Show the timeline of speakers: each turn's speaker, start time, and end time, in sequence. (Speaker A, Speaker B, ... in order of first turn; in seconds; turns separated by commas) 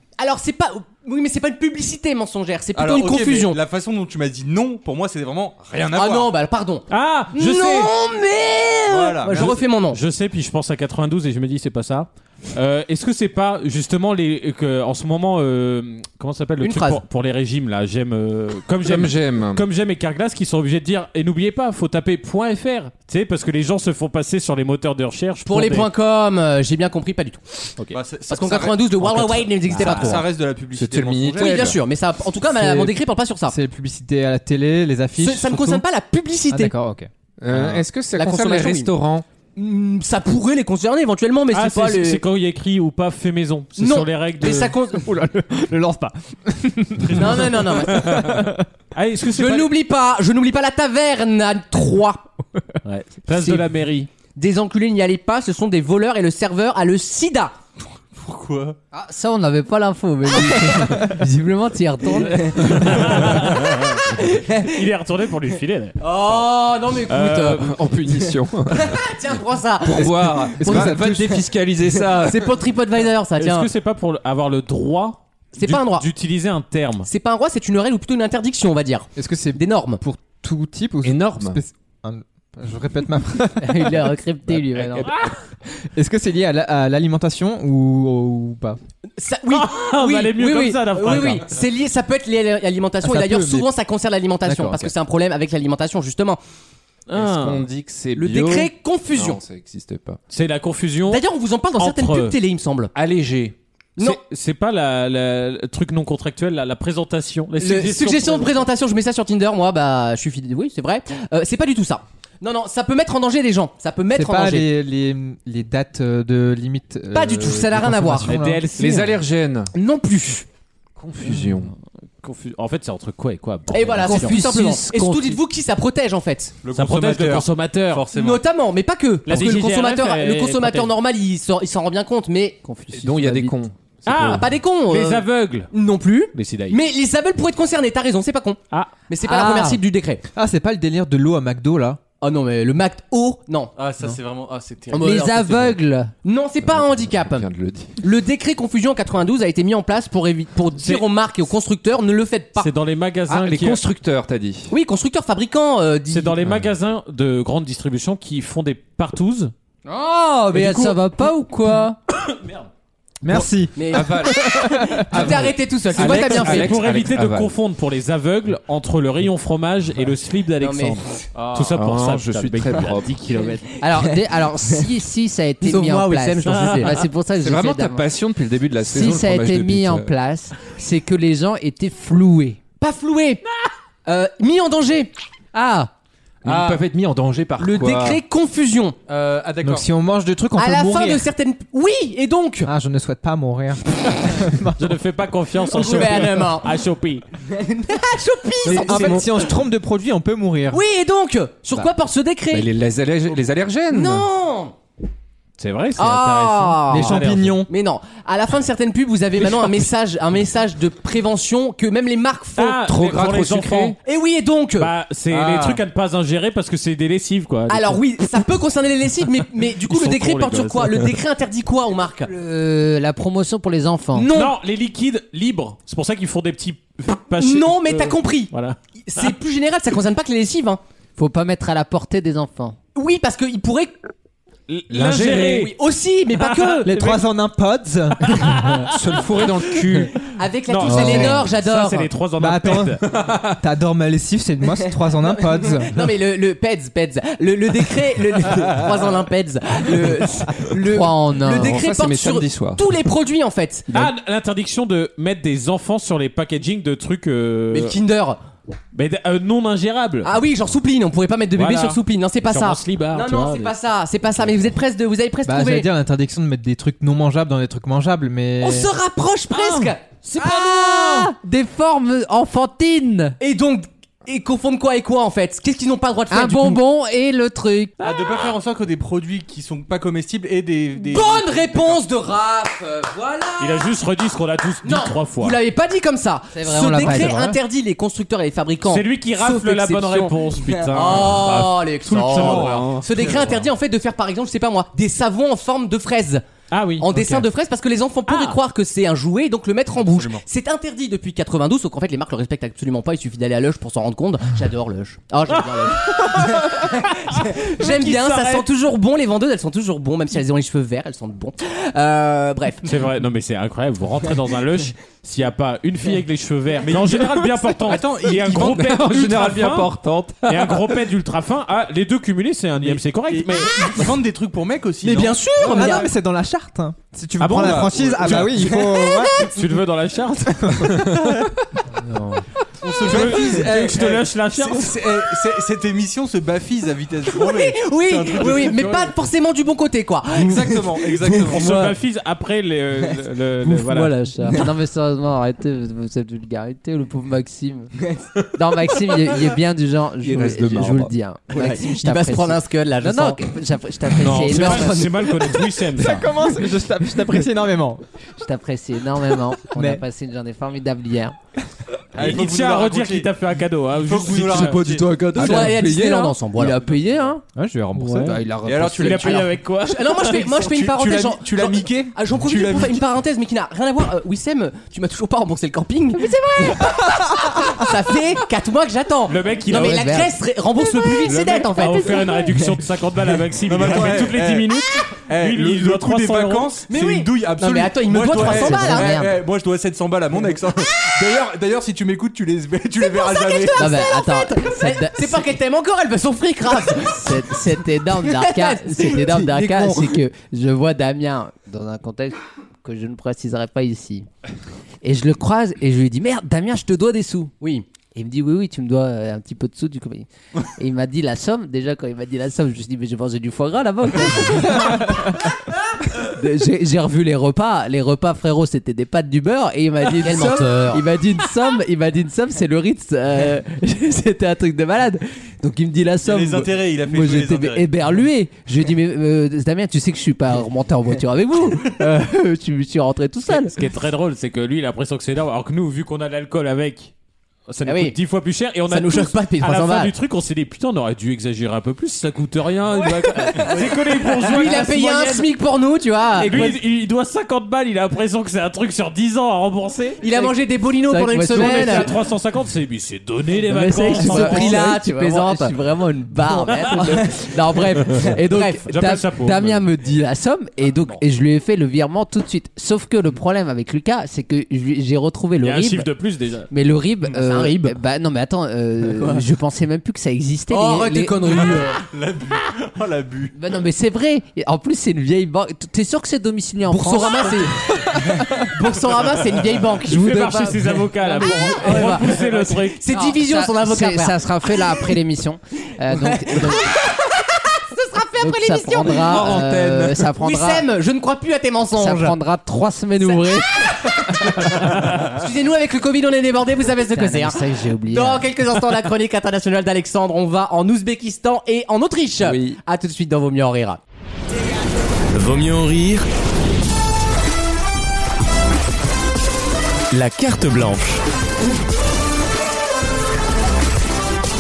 Speaker A: 0.2-3.6, Speaker B: 2.8-6.3, Speaker A: 5.9-10.0, Speaker C: 6.9-7.9, Speaker B: 8.9-9.6, Speaker C: 9.3-25.9, Speaker A: 16.6-17.0, Speaker D: 18.8-19.6, Speaker A: 25.5-27.7, Speaker B: 27.9-31.8, Speaker A: 28.3-30.3, Speaker C: 29.8-30.2, Speaker D: 30.7-31.8, Speaker A: 31.4-33.5, Speaker E: 32.5-35.8, Speaker A: 35.2-36.7, Speaker E: 36.5-37.8, Speaker D: 37.4-39.3, Speaker A: 38.1-38.9, Speaker A: 39.6-42.2, Speaker C: 41.5-44.9, Speaker A: 43.8-45.1, Speaker E: 45.1-48.7, Speaker C: 47.0-49.7, Speaker A: 47.1-48.3, Speaker A: 49.3-52.3, Speaker C: 52.8-54.1, Speaker A: 53.3-53.7, Speaker A: 54.4-57.5, Speaker B: 58.1-58.8, Speaker F: 58.9-63.3, Speaker C: 62.3-67.7, Speaker A: 64.1-64.7, Speaker A: 66.0-67.6, Speaker D: 67.6-69.0, Speaker A: 68.7-71.3, Speaker D: 69.8-72.6, Speaker E: 70.5-71.5, Speaker A: 72.1-73.7, Speaker C: 73.4-77.1, Speaker A: 75.5-76.1, Speaker A: 77.1-80.0, Speaker E: 79.2-83.9, Speaker D: 81.0-81.6, Speaker F: 83.6-85.1, Speaker C: 85.0-85.3, Speaker E: 85.9-88.8, Speaker A: 89.2-96.4, Speaker C: 89.5-91.5, Speaker E: 93.0-93.7, Speaker E: 94.5-94.9, Speaker C: 97.1-97.7, Speaker D: 97.1-100.2, Speaker A: 98.2-99.4, Speaker C: 100.3-101.2, Speaker A: 101.1-102.9, Speaker C: 101.8-102.4, Speaker D: 103.0-103.5, Speaker C: 104.0-108.6, Speaker A: 107.6-114.7, Speaker E: 114.1-118.7, Speaker A: 117.1-118.3, Speaker C: 118.3-119.2, Speaker D: 118.8-119.7, Speaker A: 119.7-120.5, Speaker D: 121.0-121.7, Speaker C: 122.2-124.4, Speaker A: 123.7-126.5, Speaker F: 124.1-125.4, Speaker D: 124.2-124.8, Speaker B: 126.6-128.4, Speaker C: 126.7-128.1, Speaker A: 128.1-132.6, Speaker C: 129.3-130.9, Speaker F: 132.6-133.6, Speaker D: 132.9-134.4, Speaker C: 134.1-135.7, Speaker A: 134.2-140.2, Speaker C: 136.3-136.8, Speaker F: 139.2-139.8, Speaker E: 140.3-142.0, Speaker A: 142.2-143.7, Speaker B: 143.8-145.6, Speaker A: 144.9-145.7, Speaker F: 145.0-146.1, Speaker A: 146.2-147.5, Speaker D: 146.6-148.0, Speaker A: 148.0-152.7, Speaker C: 150.8-151.1, Speaker C: 152.6-153.8, Speaker D: 153.3-154.7, Speaker A: 154.7-156.4, Speaker C: 156.1-159.5, Speaker D: 156.4-156.7, Speaker A: 159.9-160.9, Speaker F: 160.0-162.0, Speaker C: 162.2-162.6, Speaker E: 163.2-165.3, Speaker A: 163.7-166.8, Speaker D: 163.9-167.5, Speaker C: 166.0-173.8, Speaker A: 170.6-171.2, Speaker B: 171.3-171.7, Speaker D: 171.7-173.3, Speaker F: 173.8-178.1, Speaker A: 175.6-177.0, Speaker C: 176.5-177.1, Speaker D: 177.4-180.1, Speaker F: 178.8-182.6, Speaker A: 182.8-183.4, Speaker A: 184.1-185.9, Speaker D: 186.4-188.2, Speaker B: 186.4-186.8, Speaker A: 187.6-189.0, Speaker B: 189.1-189.9, Speaker E: 189.6-191.3, Speaker A: 190.6-192.7, Speaker E: 192.7-194.8, Speaker C: 194.8-197.3, Speaker A: 195.7-196.7, Speaker A: 197.5-199.4, Speaker E: 198.6-200.8, Speaker A: 200.7-202.7, Speaker D: 202.5-204.3, Speaker A: 203.9-204.8, Speaker C: 205.6-207.6, Speaker A: 206.0-212.8, Speaker E: 206.9-207.7, Speaker C: 212.6-214.0, Speaker D: 212.8-214.0, Speaker A: 214.1-214.9, Speaker C: 214.8-218.0, Speaker B: 215.3-215.8, Speaker A: 217.7-222.3, Speaker C: 219.8-221.1, Speaker F: 222.3-224.3, Speaker A: 224.1-224.5, Speaker C: 224.3-229.3, Speaker A: 227.4-230.8, Speaker F: 231.2-232.8, Speaker A: 232.9-233.9, Speaker C: 234.7-235.8, Speaker D: 234.9-235.7, Speaker A: 235.1-236.9, Speaker C: 236.4-237.2, Speaker E: 236.8-238.3, Speaker C: 238.2-239.0, Speaker D: 238.8-240.2, Speaker A: 240.3-242.1, Speaker C: 240.7-243.0, Speaker F: 240.8-241.4, Speaker E: 240.9-241.2, Speaker E: 242.4-243.0, Speaker D: 243.0-243.6, Speaker E: 243.6-246.0, Speaker A: 245.3-253.9, Speaker F: 250.7-251.8, Speaker D: 251.5-252.8, Speaker C: 253.9-258.0, Speaker A: 257.7-258.4, Speaker C: 258.9-260.3, Speaker A: 260.2-265.9, Speaker C: 261.6-263.7, Speaker E: 265.4-268.9, Speaker A: 268.6-270.0, Speaker C: 269.5-271.3, Speaker F: 270.4-273.4, Speaker A: 273.4-276.8, Speaker F: 276.3-278.0, Speaker B: 278.0-282.0, Speaker C: 278.0-278.5, Speaker A: 281.1-283.9, Speaker C: 283.6-285.6, Speaker A: 284.8-296.4, Speaker F: 286.6-287.5, Speaker E: 286.9-287.5, Speaker C: 288.8-293.1, Speaker B: 292.3-293.6, Speaker C: 296.7-297.5, Speaker A: 297.0-312.9, Speaker C: 298.3-298.6, Speaker B: 300.0-300.4, Speaker C: 305.5-308.7, Speaker C: 312.8-319.9, Speaker B: 316.8-319.0, Speaker D: 318.8-321.0, Speaker C: 320.4-324.1, Speaker B: 322.8-326.0, Speaker A: 325.0-326.1, Speaker E: 325.6-329.5, Speaker C: 327.4-328.5, Speaker B: 327.6-328.9, Speaker A: 328.8-329.6, Speaker C: 329.4-331.1, Speaker E: 330.6-331.1, Speaker B: 332.8-339.1, Speaker C: 333.0-335.0, Speaker A: 337.3-341.8, Speaker B: 340.3-341.9, Speaker C: 341.4-344.2, Speaker F: 341.6-341.9, Speaker F: 343.6-347.9, Speaker F: 348.4-355.2, Speaker D: 350.2-351.1, Speaker A: 351.5-353.4, Speaker C: 354.2-356.3, Speaker A: 354.4-355.3, Speaker E: 356.0-358.0, Speaker F: 358.4-361.4, Speaker E: 359.7-360.0, Speaker B: 362.1-363.3, Speaker C: 362.1-365.0, Speaker B: 363.9-365.3, Speaker E: 364.8-366.0, Speaker D: 364.9-365.6, Speaker A: 365.3-366.8, Speaker F: 365.4-367.4, Speaker E: 367.6-368.5, Speaker C: 368.0-368.4, Speaker F: 368.2-369.0, Speaker B: 368.6-369.5, Speaker D: 368.6-368.9, Speaker C: 369.0-370.4, Speaker A: 369.0-382.4, Speaker B: 370.2-373.1, Speaker F: 376.2-377.0, Speaker C: 379.3-380.1, Speaker F: 379.7-382.3, Speaker B: 381.3-381.8, Speaker C: 381.7-386.8, Speaker B: 383.7-384.8, Speaker B: 385.3-394.2, Speaker A: 386.9-389.3, Speaker F: 388.3-389.4, Speaker A: 393.6-400.2, Speaker F: 393.8-395.5, Speaker F: 397.0-404.3, Speaker F: 405.0-407.5, Speaker F: 408.1-415.6, Speaker F: 416.1-433.8, Speaker A: 420.2-421.0, Speaker B: 426.2-427.9, Speaker C: 433.5-437.1, Speaker C: 437.7-445.5, Speaker A: 437.8-438.2, Speaker A: 438.9-440.1, Speaker A: 443.6-446.8, Speaker C: 446.4-450.2, Speaker A: 450.2-452.1, Speaker F: 450.3-452.2, Speaker C: 451.5-454.9, Speaker F: 453.6-466.1, Speaker A: 454.1-455.8, Speaker A: 456.4-458.9, Speaker C: 456.8-457.2, Speaker C: 458.9-459.9, Speaker C: 465.6-466.7, Speaker F: 466.7-471.7, Speaker A: 467.3-468.0, Speaker A: 469.1-469.4, Speaker A: 470.7-472.0, Speaker B: 471.6-473.6, Speaker F: 473.6-477.8, Speaker A: 476.9-480.5, Speaker F: 480.0-482.5, Speaker C: 480.1-483.1, Speaker A: 481.2-484.4, Speaker F: 483.1-487.0, Speaker A: 486.1-489.4, Speaker F: 488.4-490.9, Speaker D: 489.0-490.3, Speaker A: 490.4-492.4, Speaker F: 492.0-494.3, Speaker A: 494.0-504.0, Speaker F: 497.1-498.5, Speaker D: 502.4-502.8, Speaker G: 505.3-506.3, Speaker G: 510.1-511.2